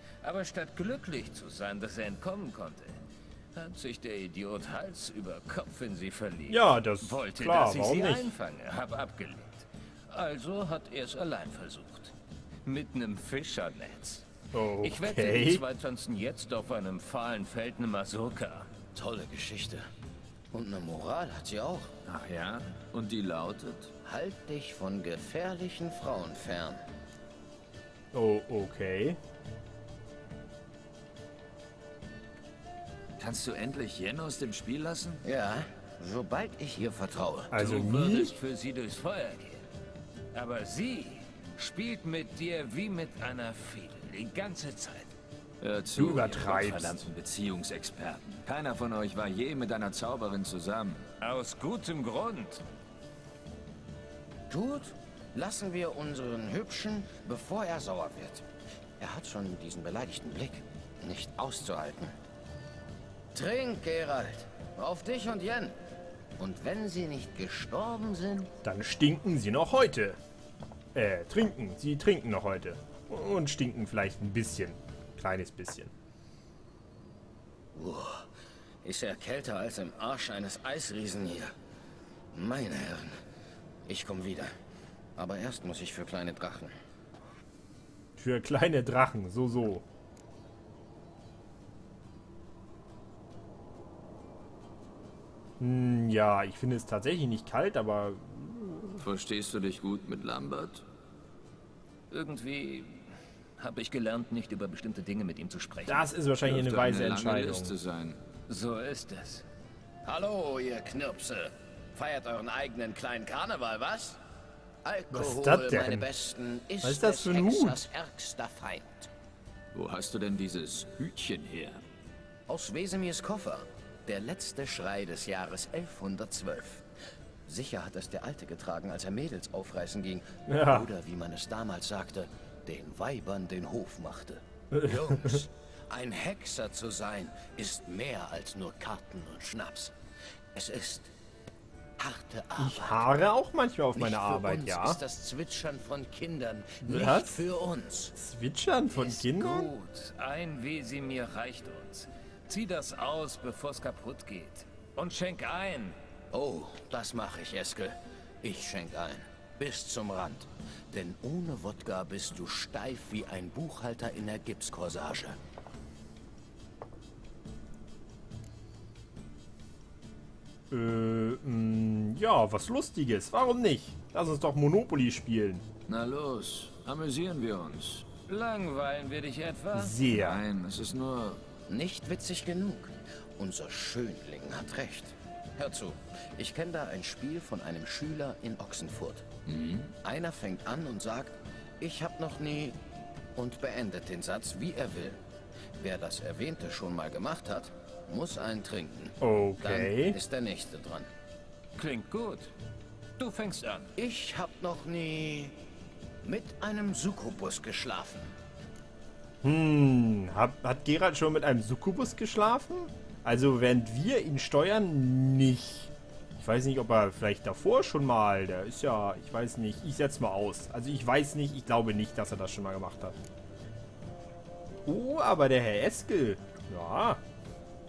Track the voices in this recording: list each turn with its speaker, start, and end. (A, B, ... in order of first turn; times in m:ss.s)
0:00.2-0:03.0 A
0:03.5-0:12.1 A
0:06.5-0:08.3 B
0:12.6-0:14.3 A
0:14.5-0:15.6 B
0:14.8-0:18.7 A
0:18.9-0:19.9 C
0:20.5-0:21.9 C
0:22.0-0:23.9 D
0:24.0-0:26.8 C
0:28.1-0:29.2 B
0:33.2-0:35.2 D
0:35.2-0:37.5 C
0:37.5-0:38.3 B
0:37.5-0:39.6 A
0:40.3-0:45.1 A
0:45.6-0:51.1 D
0:46.0-0:47.0 B
0:51.2-0:52.6 A
0:54.5-0:58.4 C
0:59.0-1:02.1 C
1:03.3-1:05.8 C
1:06.4-1:08.5 C
1:08.6-1:10.2 B
1:10.9-1:15.9 B
1:17.7-1:18.3 C
1:18.8-1:21.5 C
1:22.3-1:23.2 C
1:23.9-1:24.5 C
1:25.2-1:26.7 C
1:28.2-1:29.8 B
1:35.6-1:39.0 B
1:39.0-1:40.8 D
1:42.1-1:46.0 A
1:45.9-1:47.8 B
1:46.4-1:48.2 D
1:48.5-1:49.4 A
1:50.0-1:54.2 C
1:54.8-1:59.1 C
1:55.1-1:56.0 B
1:56.8-1:57.8 B
1:59.7-2:01.8 D
2:02.5-2:06.8 C
2:07.4-2:19.9 C
2:10.5-2:10.9 B
2:14.7-2:15.4 B
2:20.5-2:21.1 C
2:22.0-2:23.3 C
2:22.6-2:25.0 B
2:24.0-2:28.1 C
2:26.8-2:27.4 B
2:28.2-2:29.7 B
2:28.9-2:36.0 A
2:36.3-2:45.4 C
2:50.7-2:55.6 B
2:55.9-2:58.1 D
2:58.3-2:59.9 A
2:59.7-3:00.4 B
3:00.1-3:01.4 D
3:01.7-3:09.3 C
3:09.5-3:09.9 D
3:10.0-3:12.8 C
3:13.4-3:15.2 C
3:15.8-3:21.1 C
3:19.2-3:20.2 B
3:21.8-3:22.5 A
3:23.2-3:23.9 A
3:24.0-3:25.6 C
3:26.2-3:28.4 C
3:29.4-3:43.2 B
3:44.8-3:47.2 B